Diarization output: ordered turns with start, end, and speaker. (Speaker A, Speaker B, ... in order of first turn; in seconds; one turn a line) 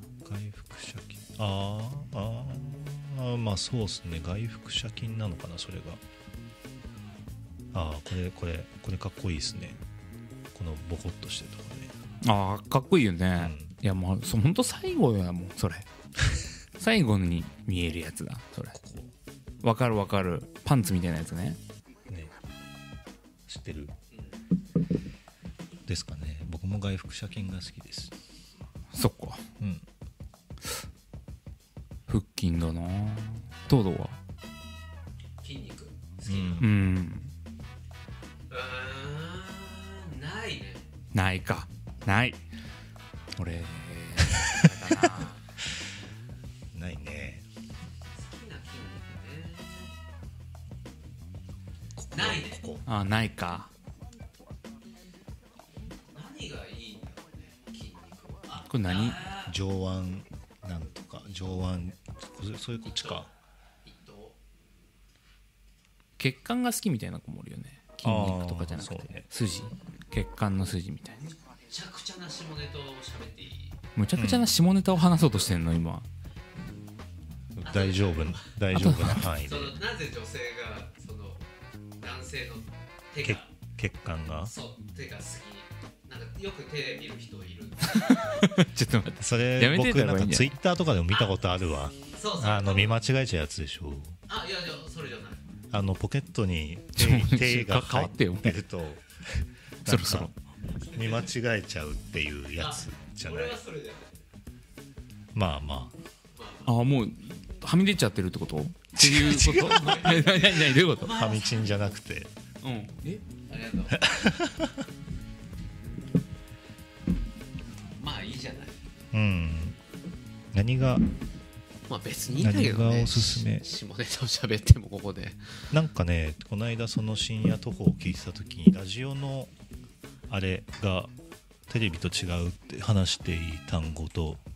Speaker A: 0.2-6.0
Speaker A: 7.7-9.8
Speaker A: 10.5-11.9
Speaker B: 12.2-15.9
Speaker A: 13.4-13.7
Speaker B: 16.8-18.8
Speaker A: 18.7-19.1
Speaker B: 19.6-21.6
Speaker A: 23.5-23.9
Speaker A: 25.9-28.1
Speaker B: 28.9-29.4
Speaker A: 29.6-29.9
Speaker B: 32.1-34.2
Speaker C: 35.4-36.7
Speaker A: 36.3-36.7
Speaker B: 36.6-37.3
Speaker C: 38.5-40.9
Speaker B: 41.1-42.4
Speaker B: 43.4-45.4
Speaker A: 44.3-44.7
Speaker A: 46.7-47.4
Speaker C: 48.1-49.9
Speaker A: 52.0-52.9
Speaker C: 52.1-52.6
Speaker B: 52.9-53.7
Speaker C: 56.0-59.5
Speaker B: 58.6-59.2
Speaker A: 59.5-63.3
Speaker C: 62.9-63.3
Speaker C: 63.9-64.4
Speaker B: 66.2-71.2
Speaker A: 68.0-69.3
Speaker C: 71.5-73.8
Speaker B: 74.0-76.1
Speaker A: 74.2-74.5
Speaker A: 77.6-79.8
Speaker C: 77.7-78.5
Speaker B: 78.7-79.3
Speaker C: 79.4-81.5
Speaker C: 82.0-83.5
Speaker A: 83.2-84.5
Speaker C: 84.5-88.5
Speaker B: 88.0-90.6
Speaker A: 89.2-94.2
Speaker C: 92.1-93.0
Speaker C: 94.3-95.4
Speaker A: 95.7-100.3
Speaker B: 97.0-98.6
Speaker B: 99.8-100.3
Speaker A: 100.8-103.6
Speaker C: 102.6-104.2
Speaker A: 105.3-106.0
Speaker C: 106.4-106.7
Speaker B: 106.7-111.2
Speaker A: 108.9-110.1
Speaker C: 109.5-111.8
Speaker A: 111.1-112.3
Speaker B: 112.6-113.2
Speaker C: 113.5-114.0
Speaker A: 113.9-114.8
Speaker C: 118.0-118.8
Speaker A: 119.1-119.8
Speaker A: 120.5-121.1
Speaker C: 121.9-125.5
Speaker A: 122.4-123.7
Speaker A: 125.7-129.5
Speaker A: 130.3-131.1
Speaker A: 131.7-134.4